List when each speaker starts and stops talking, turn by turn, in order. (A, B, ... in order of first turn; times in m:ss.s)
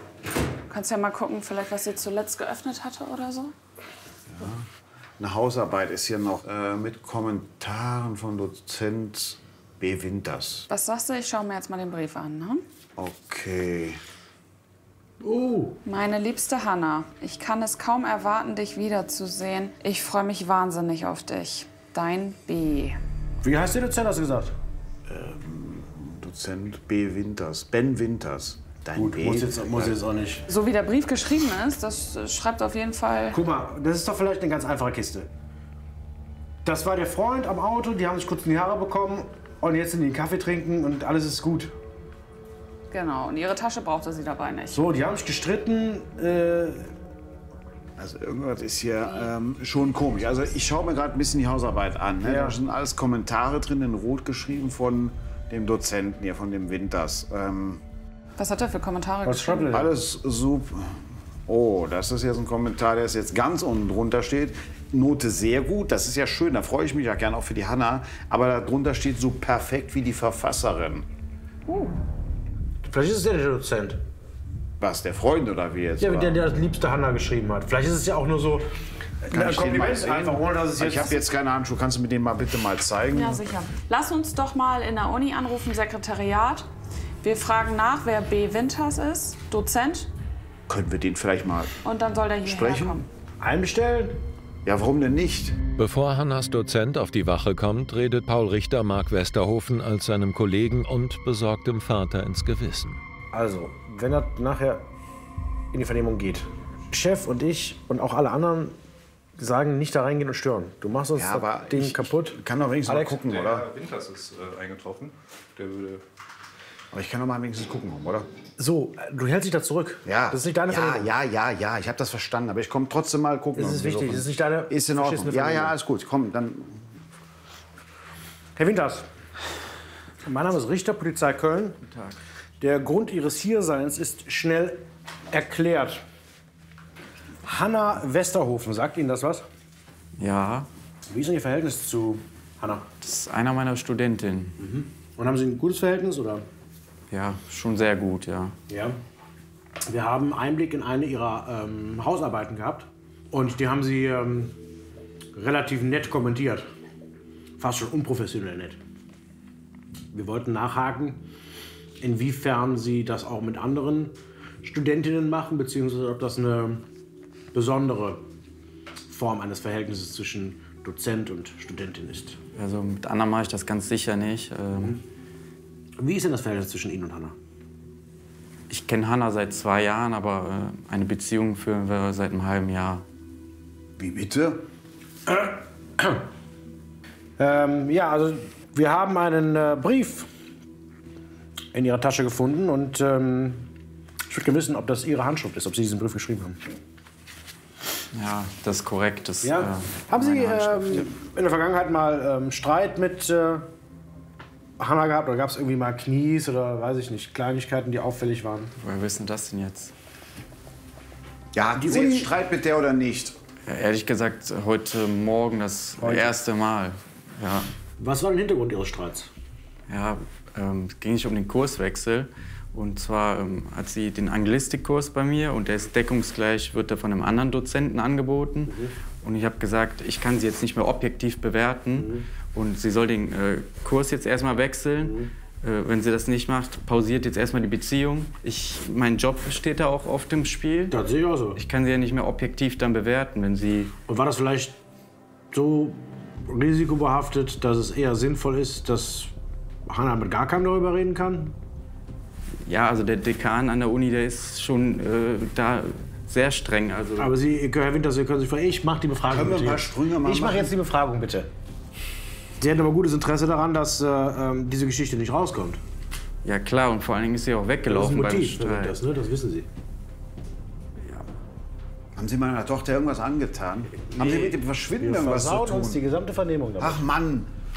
0:00.7-0:03.5 A
0:04.3-0:04.7 B
0:05.2-0:10.7 B
0:10.7-0:12.6 A
0:13.0-0:14.0 B
0:15.2-0:15.8 C
0:15.9-0:23.0 A
0:23.4-0:24.6 C
0:25.1-0:30.0 B
0:29.0-0:30.5 C
0:30.5-0:33.4 A
0:33.3-0:35.3 C
0:36.6-0:41.7 C
0:42.9-0:45.0 A
0:44.7-0:46.9 C
0:48.0-0:57.8 B
0:49.0-0:49.3 A
0:52.2-0:52.6 C
0:58.4-0:59.8 A
0:59.2-0:59.9 C
0:59.7-1:11.1 B
1:11.7-1:12.0 A
1:12.8-1:14.0 C
1:14.8-1:16.5 B
1:16.0-1:18.7 C
1:19.2-1:21.2 C
1:19.3-1:23.4 B
1:23.1-1:26.7 A
1:27.2-1:30.1 A
1:30.7-1:31.8 B
1:31.8-1:33.1 A
1:32.4-1:33.0 B
1:33.4-1:34.2 C
1:34.6-1:35.6 B
1:35.8-1:43.0 D
1:43.3-1:44.9 C
1:45.7-1:48.8 C
1:49.4-1:53.2 C
1:51.2-1:53.7 B
1:53.5-1:56.0 E
1:56.9-1:58.3 B
1:58.6-2:01.1 C
2:00.0-2:06.8 B
2:03.6-2:05.8 C
2:08.6-2:09.1 C
2:10.2-2:11.8 C
2:11.9-2:12.2 F
2:12.6-2:16.0 C
2:17.4-2:19.4 C
2:20.2-2:20.7 F
2:21.1-2:22.9 C
2:23.0-2:24.6 F
2:24.6-2:26.5 C
2:27.1-2:28.5 F
2:28.7-2:29.0 C
2:29.8-2:34.6 C
2:35.3-2:36.6 C
2:37.6-2:38.8 C
2:40.1-2:41.2 C
2:42.0-2:46.9 C
2:47.5-2:48.2 C
2:49.1-2:52.4 C
2:52.6-2:55.0 F
2:54.8-2:55.0 C
2:56.0-2:57.4 C
2:58.7-3:03.0 F
3:04.0-3:04.6 B
3:05.3-3:06.2 C
3:07.4-3:10.3 C
3:11.7-3:13.7 C
3:14.3-3:16.6 C
3:18.1-3:21.1 F
3:19.4-3:23.7 C
3:24.8-3:28.7 C
3:28.8-3:29.9 F
3:31.6-3:33.4 B
3:31.8-3:32.3 C
3:33.7-3:37.7 F
3:36.0-3:36.4 C
3:38.0-3:39.3 C
3:39.9-4:01.0 F
3:52.0-3:52.3 C
3:55.0-3:55.3 C
4:00.9-4:01.6 C
4:01.6-4:03.9 F
4:04.1-4:04.8 C
4:05.5-4:09.3 C
4:09.9-4:11.6 C
4:12.7-4:17.4 F
4:17.2-4:21.5 C
4:19.3-4:20.7 B
4:22.6-4:25.8 C
4:26.4-4:29.0 F
4:27.9-4:29.7 C
4:32.2-4:36.0 B
4:34.1-4:37.0 C
4:36.8-4:37.5 B